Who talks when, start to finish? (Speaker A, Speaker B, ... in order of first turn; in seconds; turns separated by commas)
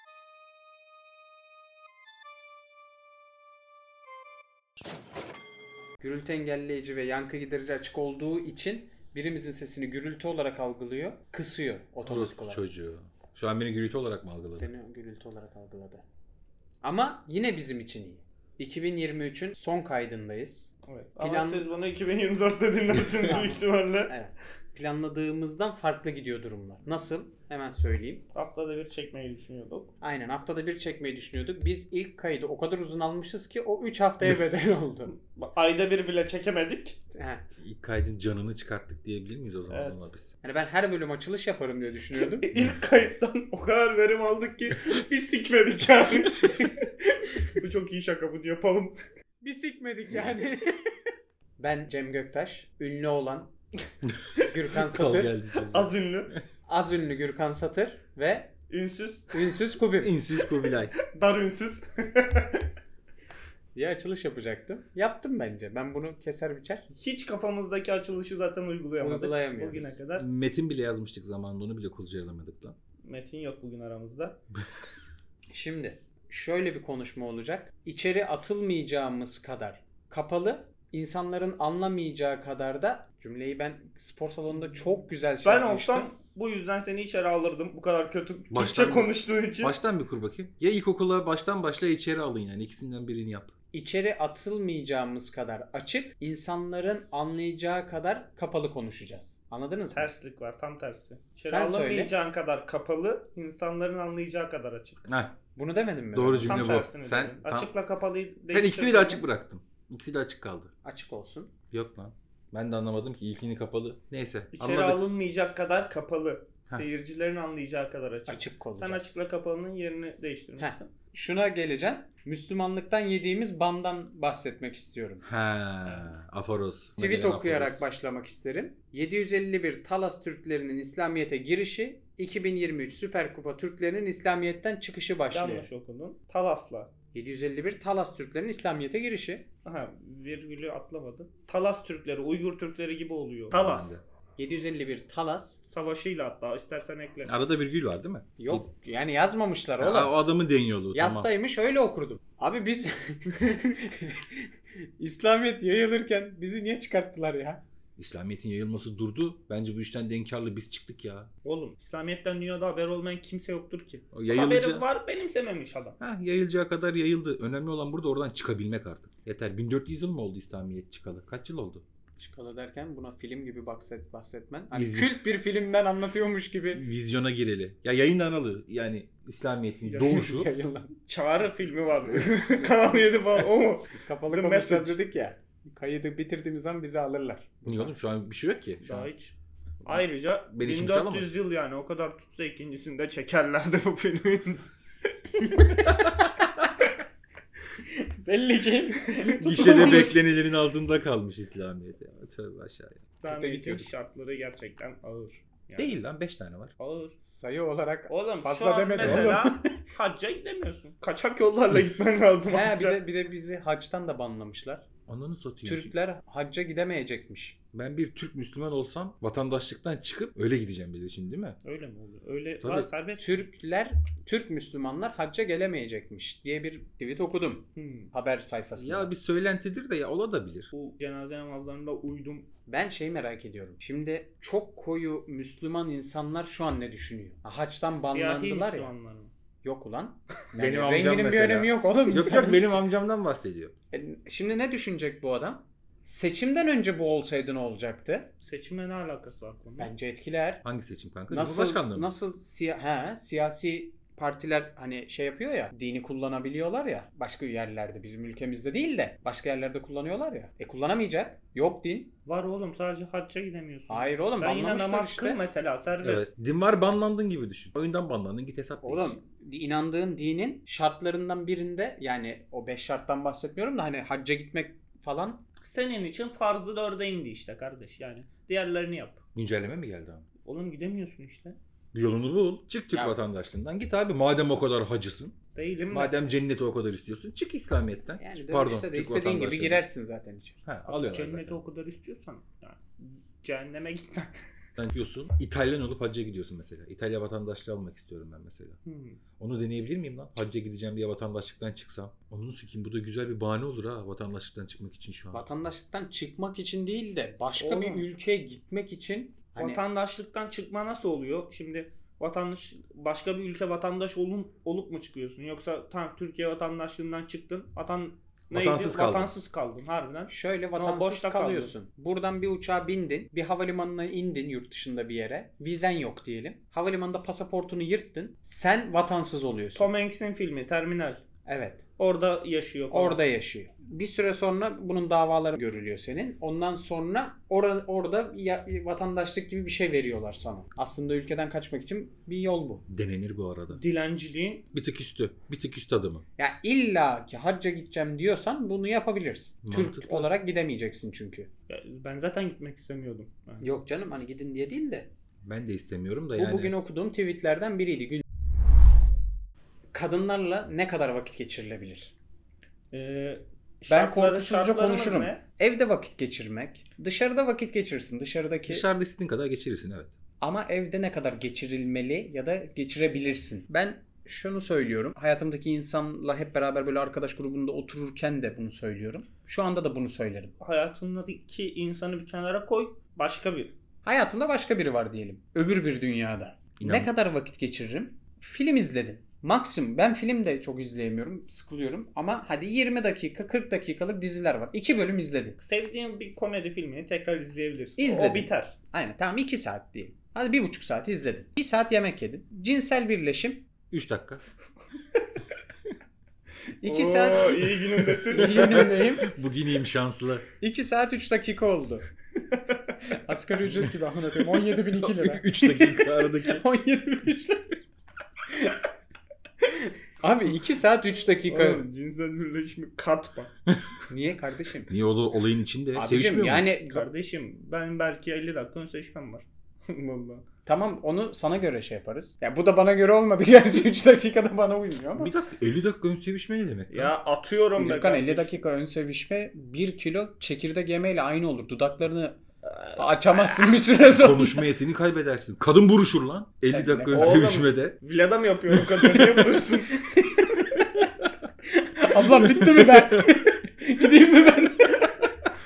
Speaker A: 6.0-12.6, Speaker B: 12.1-14.7, Speaker A: 14.5-16.0, Speaker A: 16.8-21.7, Speaker C: 20.9-24.1, Speaker A: 23.2-28.2, Speaker C: 28.3-29.9, Speaker A: 30.0-35.1, Speaker C: 35.2-37.0, Speaker A: 37.1-37.4, Speaker B: 37.6-40.3, Speaker C: 39.7-40.1, Speaker A: 40.4-42.5, Speaker C: 42.2-49.0, Speaker A: 49.4-50.8, Speaker A: 51.6-53.5, Speaker A: 54.4-55.3, Speaker B: 54.8-56.4, Speaker C: 55.5-56.3, Speaker A: 56.7-58.5, Speaker C: 58.7-59.6, Speaker A: 59.3-60.2, Speaker B: 60.0-60.9, Speaker C: 60.6-62.6, Speaker A: 63.8-66.9, Speaker C: 66.9-70.3, Speaker A: 69.0-70.0, Speaker B: 70.2-72.8, Speaker C: 73.0-74.4, Speaker A: 75.5-86.1, Speaker C: 85.4-89.8, Speaker B: 88.5-93.5, Speaker A: 93.7-100.1, Speaker C: 99.9-105.0, Speaker A: 101.4-102.1, Speaker B: 105.1-105.3, Speaker A: 105.5-106.7, Speaker B: 106.1-107.7, Speaker C: 106.5-109.2, Speaker B: 108.5-110.7, Speaker A: 110.8-111.5, Speaker B: 111.7-115.0, Speaker C: 114.5-120.9, Speaker A: 118.3-119.2, Speaker A: 120.6-125.2, Speaker B: 125.2-127.8, Speaker C: 125.8-126.1, Speaker A: 127.0-135.7, Speaker C: 135.3-136.9, Speaker A: 137.1-139.5, Speaker C: 139.7-144.0, Speaker B: 143.5-144.0, Speaker A: 144.4-145.6, Speaker C: 145.7-147.3, Speaker B: 147.2-148.6, Speaker A: 148.4-150.2, Speaker B: 149.8-151.3, Speaker A: 150.9-154.5, Speaker A: 155.0-157.6, Speaker B: 158.0-161.3, Speaker C: 161.4-166.0, Speaker B: 164.1-164.8, Speaker B: 166.0-171.8, Speaker A: 172.2-176.8, Speaker B: 174.7-175.2, Speaker B: 176.7-180.5, Speaker C: 179.9-180.3, Speaker A: 180.1-181.0, Speaker C: 181.1-185.0, Speaker A: 182.2-187.9, Speaker B: 187.7-189.1, Speaker C: 188.8-189.3, Speaker C: 189.9-194.6, Speaker B: 190.5-191.3, Speaker C: 195.3-195.9, Speaker A: 197.8-200.2, Speaker C: 199.2-200.0, Speaker B: 199.4-203.0, Speaker C: 203.2-206.0, Speaker A: 203.3-203.9, Speaker B: 205.8-206.7, Speaker C: 206.8-207.2, Speaker A: 207.2-209.8, Speaker C: 208.1-213.0, Speaker B: 209.0-209.4, Speaker A: 212.5-214.8, Speaker B: 215.1-215.9, Speaker A: 215.7-217.6, Speaker B: 217.7-221.6, Speaker C: 221.6-223.5, Speaker B: 222.6-222.9, Speaker A: 223.2-229.1, Speaker C: 227.8-228.1, Speaker B: 228.8-230.7, Speaker C: 230.7-232.5, Speaker A: 232.7-238.9, Speaker C: 237.9-239.3, Speaker A: 239.6-242.8, Speaker B: 240.6-243.7, Speaker A: 243.9-248.3, Speaker C: 248.4-249.9, Speaker A: 249.8-250.6, Speaker B: 250.6-252.1, Speaker A: 251.3-262.1, Speaker C: 262.3-266.3, Speaker A: 263.9-265.4, Speaker B: 266.0-269.2, Speaker A: 268.8-275.4, Speaker C: 275.6-279.2, Speaker B: 279.4-280.3, Speaker C: 280.4-281.6, Speaker B: 281.9-285.3, Speaker A: 282.9-283.2, Speaker C: 285.6-286.2, Speaker B: 285.9-289.8, Speaker A: 288.2-290.6, Speaker B: 290.7-291.6, Speaker C: 290.9-294.3, Speaker B: 294.8-298.8, Speaker C: 298.9-299.2, Speaker B: 299.4-305.5, Speaker A: 305.3-309.8, Speaker C: 307.6-308.1, Speaker C: 309.6-321.7, Speaker B: 318.5-319.3, Speaker A: 320.3-329.9, Speaker C: 329.8-331.2, Speaker A: 331.5-331.8, Speaker C: 332.0-333.2, Speaker A: 332.9-342.9, Speaker B: 342.9-343.8, Speaker C: 343.7-344.7, Speaker B: 344.7-346.2, Speaker A: 346.4-351.5, Speaker B: 349.6-350.3, Speaker C: 351.7-353.7, Speaker A: 353.6-355.1, Speaker B: 355.4-356.8, Speaker A: 356.4-358.2, Speaker A: 359.9-362.1, Speaker C: 362.9-365.4, Speaker A: 363.9-368.9, Speaker B: 368.7-370.1, Speaker A: 370.4-380.5, Speaker C: 380.6-383.7, Speaker A: 384.0-395.6, Speaker B: 386.8-387.1, Speaker C: 395.6-398.8, Speaker A: 398.0-403.6, Speaker B: 403.9-404.4, Speaker A: 406.8-407.8, Speaker C: 406.8-408.8, Speaker A: 408.3-409.3, Speaker B: 408.4-410.4, Speaker A: 410.6-412.1, Speaker C: 412.5-413.0, Speaker A: 413.1-417.8, Speaker B: 413.7-413.9, Speaker B: 415.0-416.6, Speaker A: 418.5-418.8, Speaker A: 419.7-421.8, Speaker C: 421.5-423.5, Speaker B: 423.7-424.0, Speaker A: 424.1-424.9, Speaker B: 424.9-426.8, Speaker A: 425.9-427.1, Speaker C: 426.8-430.4, Speaker A: 430.7-435.3, Speaker B: 435.2-437.1, Speaker C: 436.9-438.5, Speaker A: 437.8-442.4, Speaker A: 443.0-444.7, Speaker B: 444.1-448.0, Speaker A: 446.7-447.4, Speaker C: 447.1-450.1, Speaker B: 448.7-449.5, Speaker A: 450.1-451.1, Speaker A: 451.7-455.3, Speaker B: 452.4-453.3